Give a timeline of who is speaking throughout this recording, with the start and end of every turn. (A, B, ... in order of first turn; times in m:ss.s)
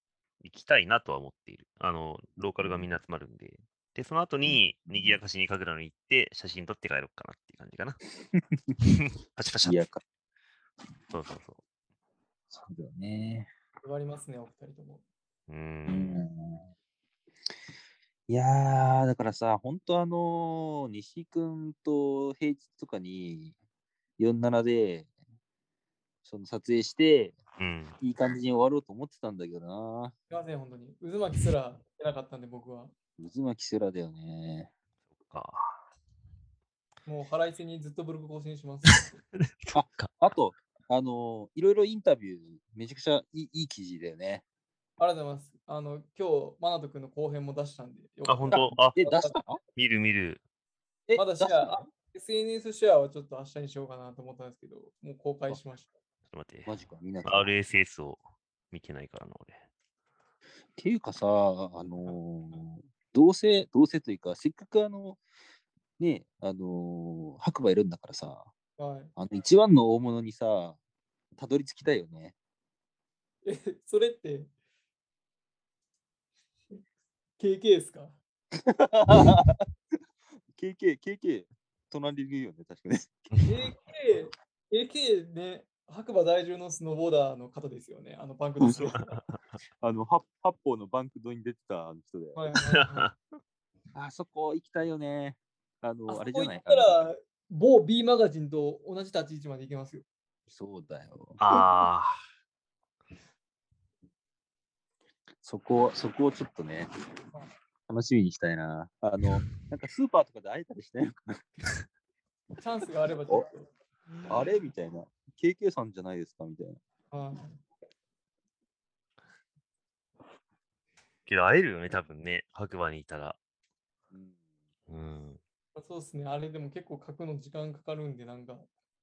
0:00.4-0:08.0 A
0:02.6-0:02.9 B
0:04.4-0:05.2 B
0:08.3-0:08.8 B
0:08.8-0:09.8 A
0:09.6-0:10.0 B
0:11.1-0:11.6 A
0:12.5-0:13.5 B
0:13.8-0:15.0 C
0:15.5-0:16.2 A
0:15.8-0:16.7 B
0:18.3-0:23.5 B
0:24.2-0:25.1 B
0:26.2-0:27.4 B
0:27.6-0:28.0 A
0:28.0-0:30.1 B
0:30.3-0:32.9 C
0:33.2-0:34.7 B
0:35.2-0:35.7 A
0:37.0-0:39.2 C
0:38.9-0:40.1 A
0:39.7-0:44.4 B
0:45.0-0:49.4 C
0:48.3-0:49.0 A
0:48.5-0:49.6 B
0:49.8-0:50.4 A
0:51.1-0:51.8 B
0:51.2-0:55.9 C
0:56.3-0:56.7 A
0:56.6-0:57.5 B
0:57.2-0:59.6 A
1:00.8-1:05.2 B
1:06.0-1:08.5 B
1:08.8-1:09.1 C
1:09.2-1:10.8 B
1:11.4-1:12.3 B
1:13.4-1:14.5 C
1:17.4-1:18.2 C
1:18.5-1:19.6 B
1:20.5-1:23.3 B
1:23.4-1:29.1 C
1:28.6-1:29.0 B
1:28.9-1:29.2 A
1:29.8-1:32.4 B
1:32.3-1:33.1 C
1:32.7-1:33.2 A
1:33.9-1:37.0 B
1:36.1-1:40.0 C
1:40.5-1:41.4 B
1:41.4-1:42.1 A
1:45.4-1:46.9 B
1:47.9-1:51.4 B
1:52.6-1:53.7 C
1:54.3-1:56.8 B
1:57.1-1:57.6 C
2:01.2-2:03.4 A
2:04.1-2:04.4 B
2:04.9-2:05.4 A
2:05.7-2:08.7 C